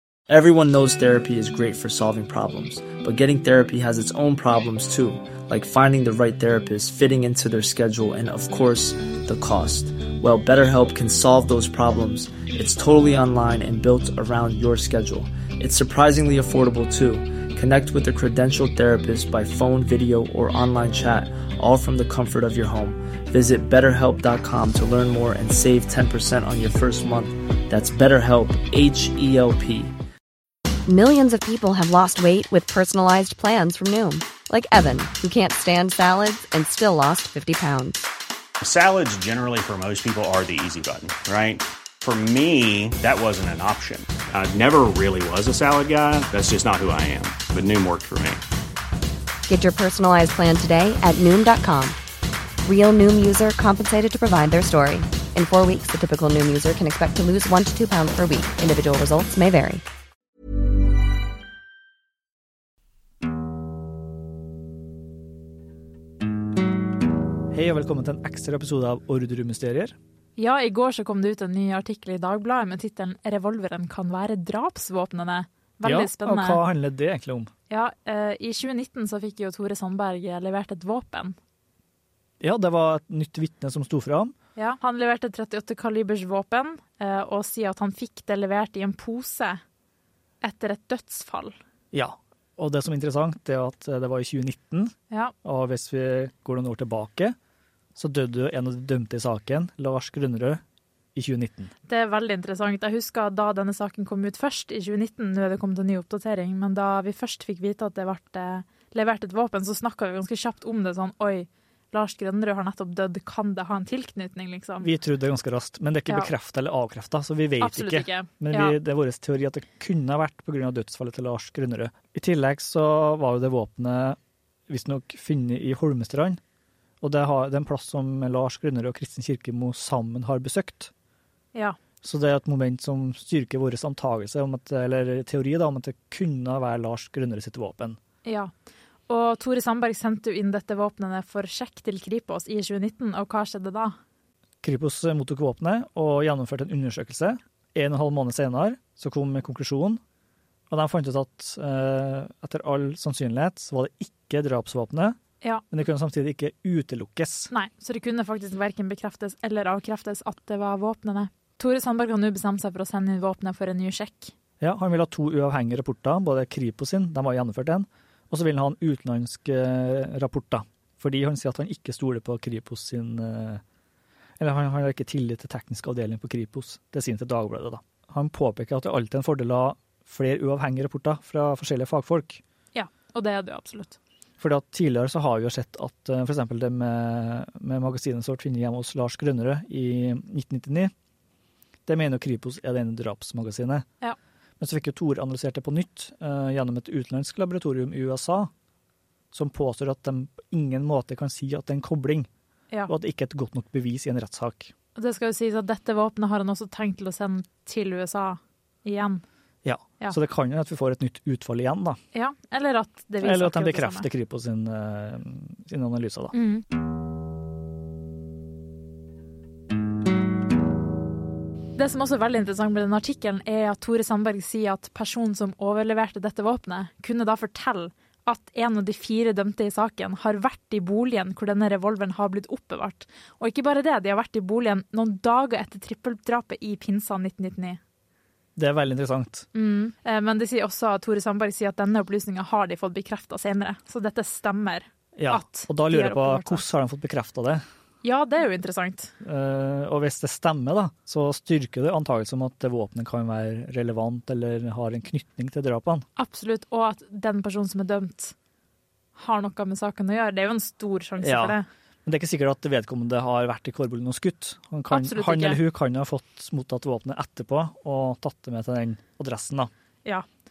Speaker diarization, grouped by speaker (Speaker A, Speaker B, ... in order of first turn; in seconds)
Speaker A: 0.3-29.9
Speaker B: 30.9-38.1, 49.5-52.0, 52.6-59.8
Speaker C: 38.6-48.4
Speaker D: 67.5-70.0, 75.8-77.5, 82.4-84.3, 91.9-97.3, 98.0-100.6, 101.2-101.7, 114.8-124.2, 124.7-126.4, 127.0-130.9, 132.0-138.0, 144.6-150.0, 150.7-155.2, 155.7-157.5, 164.6-173.6, 174.4-182.4, 184.4-190.9, 191.9-193.8, 194.6-198.5, 199.3-202.3, 202.9-204.7, 209.6-212.0, 213.2-216.3, 238.6-239.5, 245.2-247.6, 249.2-256.0, 261.2-269.7
Speaker E: 70.4-76.6, 77.7-81.4, 84.6-89.6, 90.4-91.6, 101.9-114.9, 117.6-118.8, 138.2-138.5, 139.1-144.0, 157.5-164.3, 182.7-184.0, 205.0-209.2, 212.1-214.1, 216.3-216.7, 221.8-237.8, 239.5-246.6, 248.0-249.1, 256.2-258.4, 259.2-261.7, 264.9-265.6